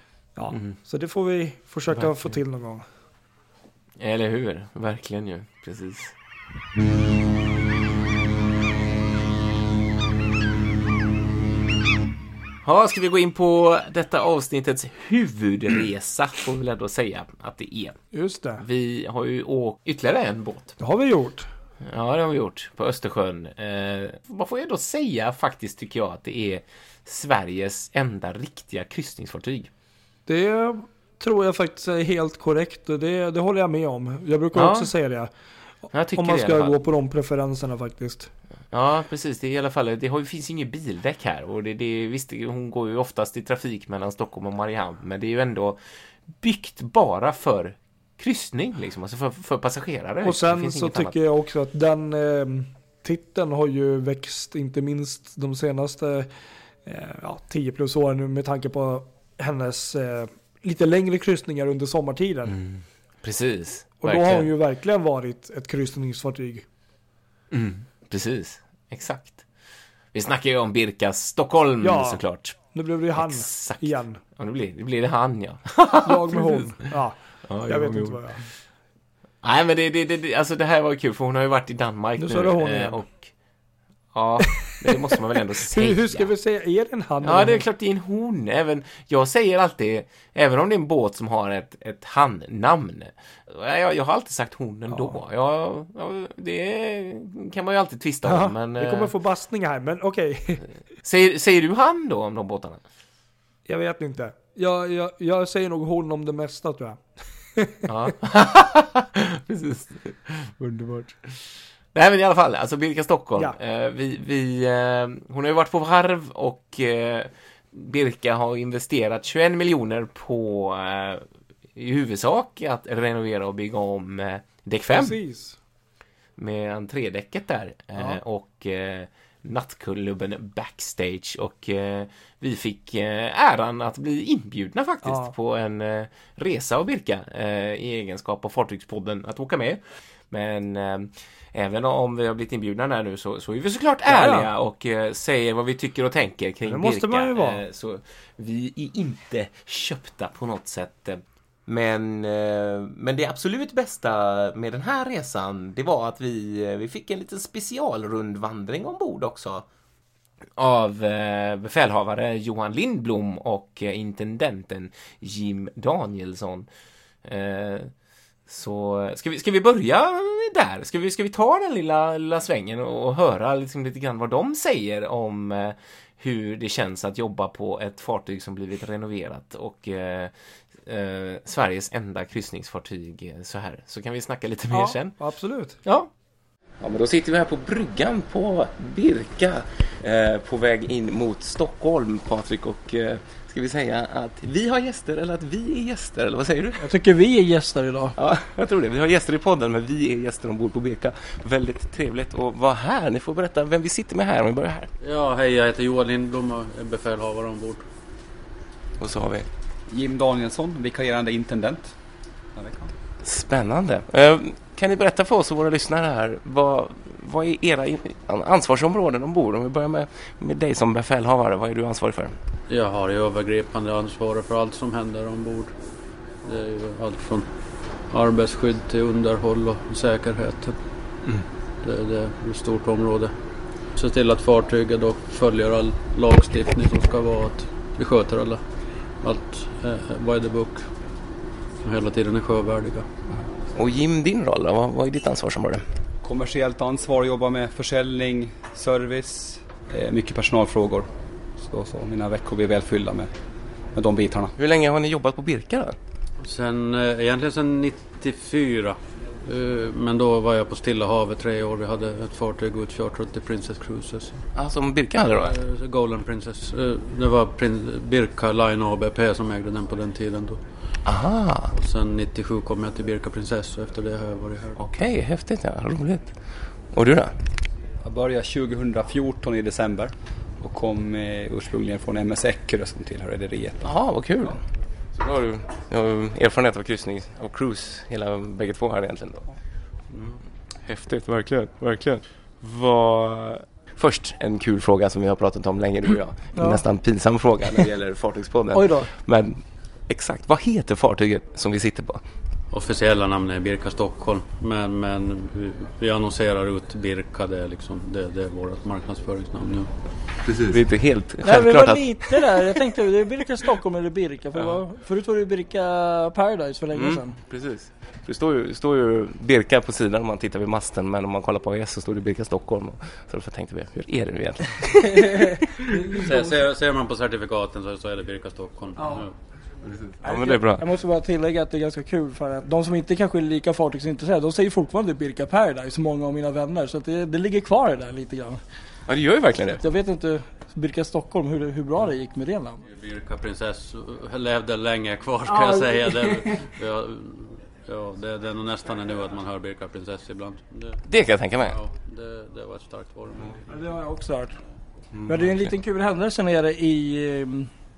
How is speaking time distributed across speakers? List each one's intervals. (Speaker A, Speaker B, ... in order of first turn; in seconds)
Speaker A: 0.4-2.9, 18.1-18.6, 20.8-21.5, 30.3-35.3, 35.9-38.3, 50.2-56.3, 56.9-62.6, 64.0-66.7, 71.8-74.2, 76.0-78.4, 82.2-83.0, 85.7-87.7, 94.9-95.2, 98.2-100.7, 103.7-107.0, 110.6-111.2, 124.9-125.6, 135.0-135.3, 144.1-144.5, 146.7-147.6, 184.7-185.8, 196.8-198.2, 296.5-296.8, 298.7-299.1, 311.4-317.4, 325.1-326.6, 329.0-329.2, 330.2-338.6, 339.8-342.8, 345.5-346.5, 353.7-354.6, 355.3-357.7
Speaker B: 4.0-6.2, 12.6-18.0, 18.6-20.8, 21.8-29.7, 34.5-34.9, 35.9-36.8, 38.7-51.2, 62.5-64.5, 67.5-69.5, 70.1-72.6, 73.2-76.8, 77.5-78.5, 79.4-83.3, 84.1-86.3, 87.2-99.1, 101.0-102.8, 107.9-110.5, 111.9-125.2, 126.4-159.7, 160.6-166.7, 167.2-167.9, 168.5-185.2, 185.8-186.1, 186.8-196.9, 198.2-204.9, 209.0-209.5, 213.2-222.4, 243.8-245.8, 254.6-256.0, 264.6-265.5, 271.1-271.7, 274.8-277.4, 283.8-284.6, 285.1-289.4, 290.9-302.2, 310.7-312.4, 316.9-325.6, 330.2-330.8, 339.1-339.8, 351.1-351.8, 355.1-355.5
Speaker C: 205.0-207.8, 222.7-240.9, 241.8-243.1, 256.4-264.5, 265.4-271.1, 271.7-274.8, 302.7-309.9, 326.2-329.4, 342.9-351.1, 351.7-353.6
Speaker D: 209.9-211.9, 212.5-212.9, 246.2-251.1, 251.6-253.3, 253.9-254.6, 278.0-283.9